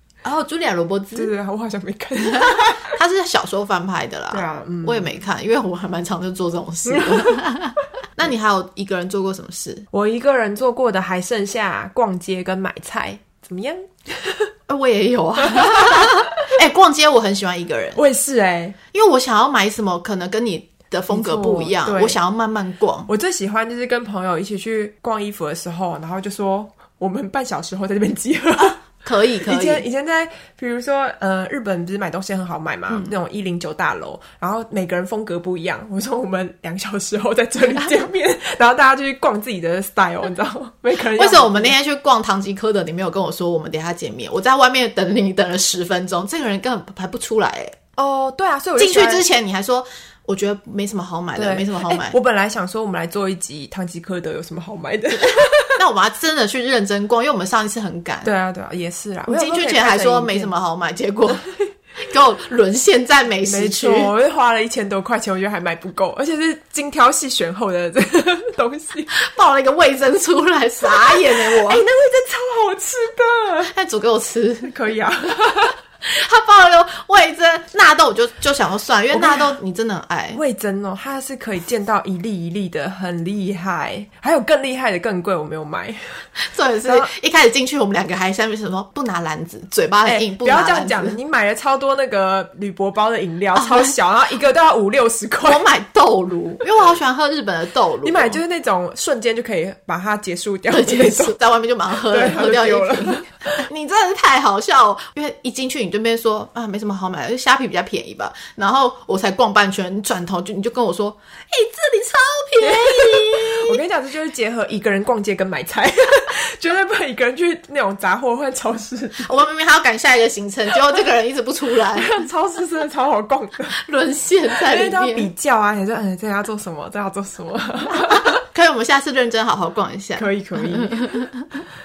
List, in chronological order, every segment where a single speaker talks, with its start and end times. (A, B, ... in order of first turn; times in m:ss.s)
0:00.2-0:01.3 A
0:01.1-0:03.0 B
0:02.2-0:09.9 A
0:04.3-0:05.2 B
0:06.9-0:07.5 B
0:09.9-0:14.5 B
0:14.7-0:18.0 A
0:15.5-0:16.3 B
0:18.0-0:18.8 B
0:18.9-0:23.1 A
0:21.1-0:22.2 B
0:23.1-0:28.8 B
0:28.8-0:29.8 A
0:29.4-0:41.7 B
0:41.1-0:47.8 A
0:48.0-0:49.2 B
0:48.8-0:52.2 A
0:51.4-0:55.8 B
0:55.7-0:58.3 A
0:58.2-1:00.5 B
0:59.3-1:01.4 A
1:02.0-1:04.1 A
1:03.4-1:09.1 B
1:09.1-1:11.8 A
1:10.8-1:13.7 B
1:13.7-1:14.8 A
1:14.6-1:15.8 B
1:16.0-1:20.4 A
1:19.1-1:19.6 B
1:20.3-1:26.3 B
1:26.4-1:31.2 A
1:26.8-1:27.1 B
1:30.0-1:35.6 B
1:33.5-1:33.9 A
1:35.4-1:38.4 A
1:38.0-1:41.4 B
1:40.7-1:53.8 A
1:42.1-1:43.3 B
1:52.6-1:59.3 B
1:59.2-2:02.3 A
2:02.0-2:03.8 B
2:03.7-2:05.3 A
2:04.5-2:08.4 B
2:08.0-2:11.6 A
2:10.2-2:11.3 B